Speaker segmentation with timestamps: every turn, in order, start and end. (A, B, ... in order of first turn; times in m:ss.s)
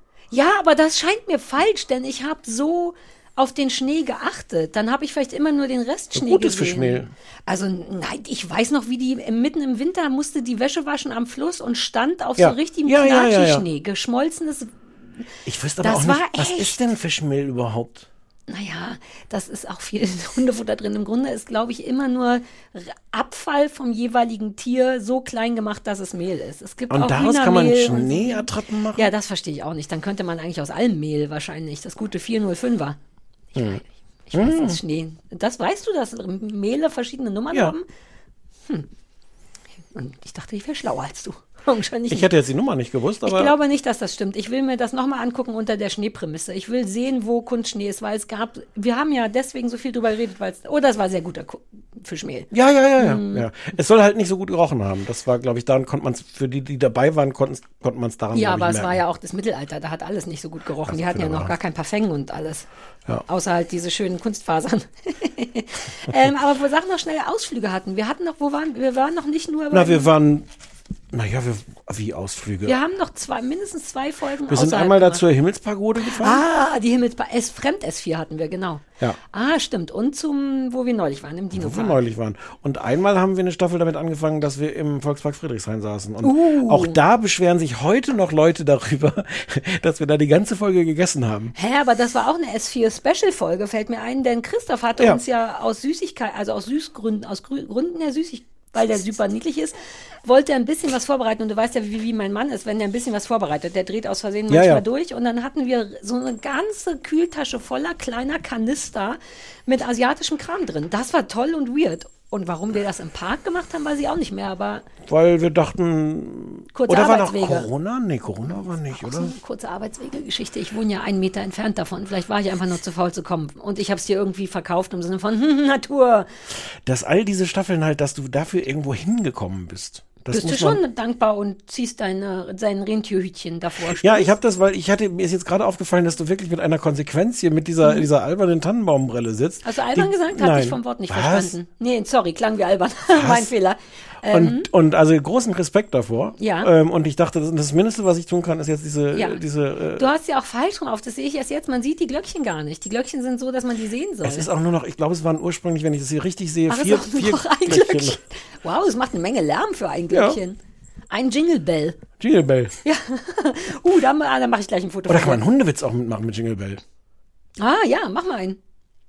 0:00.3-0:14.7 A
0:06.1-0:07.1 B
0:12.4-0:13.7 B
0:15.4-0:18.1 B
0:15.8-0:16.8 A
0:18.5-0:33.0 A
0:26.9-0:29.1 B
0:33.5-0:37.8 A
0:34.3-0:34.8 B
0:39.9-0:42.2 A
0:42.1-0:43.5 B
0:43.2-0:53.4 A
0:52.5-0:59.0 B
0:58.3-1:02.6 A
1:00.8-1:01.5 B
1:03.3-1:10.1 A
1:09.7-1:10.5 B
1:11.1-1:12.8 B
1:12.7-1:15.2 A
1:14.5-1:16.4 B
1:16.1-1:22.0 A
1:21.5-1:31.5 B
1:26.2-1:27.0 A
1:31.6-1:54.8 A
1:35.0-1:35.2 B
1:44.5-1:44.8 B
1:55.1-1:59.3 B
1:56.7-1:57.7 A
1:58.9-2:06.3 A
2:06.8-2:10.8 B
2:10.3-2:14.3 A
2:13.9-2:21.5 B
2:19.6-2:24.6 A
2:23.1-2:23.5 B
2:24.3-2:30.1 B
2:26.4-2:26.7 A
2:29.1-2:29.4 A
2:30.0-2:34.5 A
2:34.2-2:38.2 B
2:36.7-2:40.6 A
2:40.1-2:40.4 B
2:41.1-2:42.0 A
2:42.2-2:42.8 B
2:42.8-2:45.4 A
2:45.1-2:46.8 B
2:47.6-2:48.6 A